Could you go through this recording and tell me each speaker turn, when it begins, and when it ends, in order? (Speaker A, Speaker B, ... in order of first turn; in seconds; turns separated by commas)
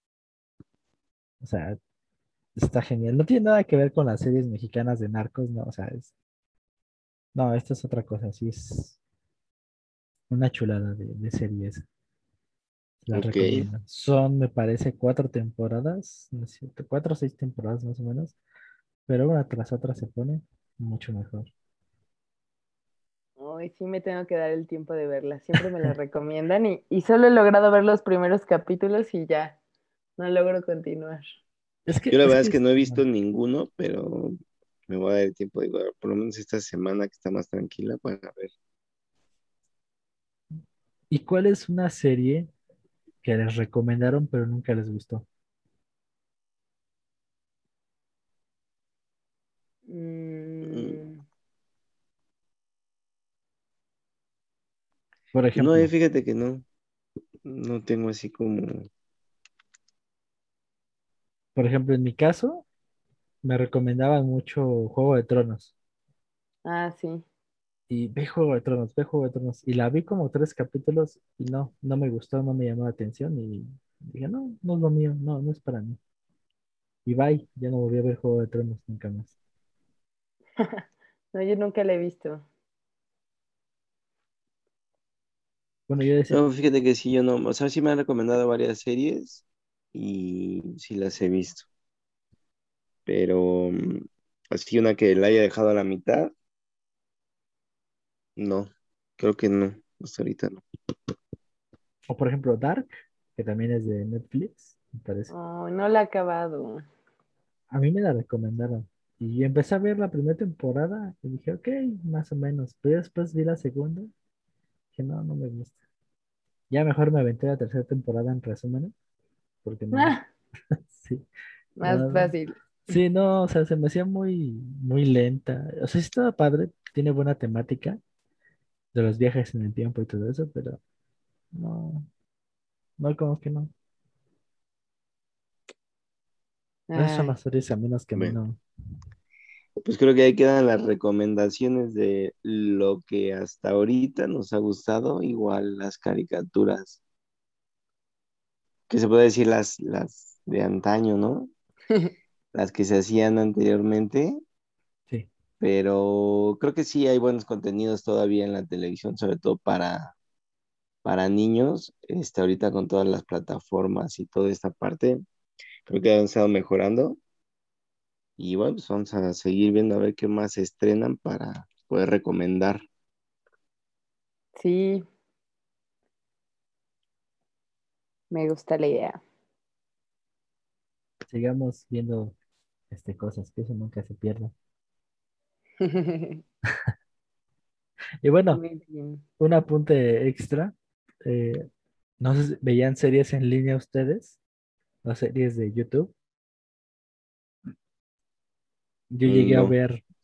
Speaker A: 1.4-1.8, Speaker A: 2.5-6.1, Speaker A: 7.3-9.0, Speaker A: 10.3-11.8, Speaker A: 13.0-18.3, Speaker B: 13.1-13.7, Speaker A: 19.1-21.5, Speaker C: 23.4-29.6, Speaker C: 30.2-31.2, Speaker A: 31.9-33.0, Speaker B: 32.1-34.4, Speaker B: 34.9-38.5, Speaker A: 41.1-42.5, Speaker A: 43.2-45.2, Speaker C: 49.9-51.2, Speaker B: 50.6-51.0, Speaker A: 55.3-55.9, Speaker B: 55.5-56.6, Speaker B: 57.4-58.9, Speaker A: 61.5-62.6, Speaker A: 63.4-65.7, Speaker C: 66.6-67.2, Speaker A: 67.9-76.0, Speaker A: 77.0-79.3, Speaker C: 80.6-82.4, Speaker A: 85.9-86.4, Speaker B: 86.3-91.7, Speaker B: 93.1-96.3, Speaker B: 98.4-100.6, Speaker A: 102.1-105.3, Speaker C: 105.3-106.8, Speaker A: 107.7-114.1, Speaker A: 114.9-115.7, Speaker A: 116.7-118.9, Speaker A: 119.6-120.2, Speaker C: 119.9-120.2, Speaker A: 120.7-121.2, Speaker C: 121.8-122.6, Speaker A: 121.8-122.3, Speaker A: 122.9-128.0, Speaker A: 128.9-130.8, Speaker A: 131.5-132.1, Speaker A: 133.0-133.7, Speaker C: 136.9-137.3, Speaker A: 136.9-138.6, Speaker B: 139.8-147.0, Speaker B: 148.9-151.5, Speaker B: 152.5-154.4, Speaker B: 155.6-160.1, Speaker B: 161.0-165.2, Speaker B: 165.9-167.2, Speaker B: 168.4-172.8, Speaker C: 174.6-175.1, Speaker C: 178.3-179.2, Speaker A: 181.3-182.3, Speaker A: 182.9-184.5, Speaker C: 185.8-186.4, Speaker A: 188.2-188.6, Speaker C: 188.5-189.2, Speaker A: 189.4-191.7, Speaker A: 192.2-194.4, Speaker A: 195.0-196.1, Speaker A: 199.1-200.0, Speaker B: 199.2-199.7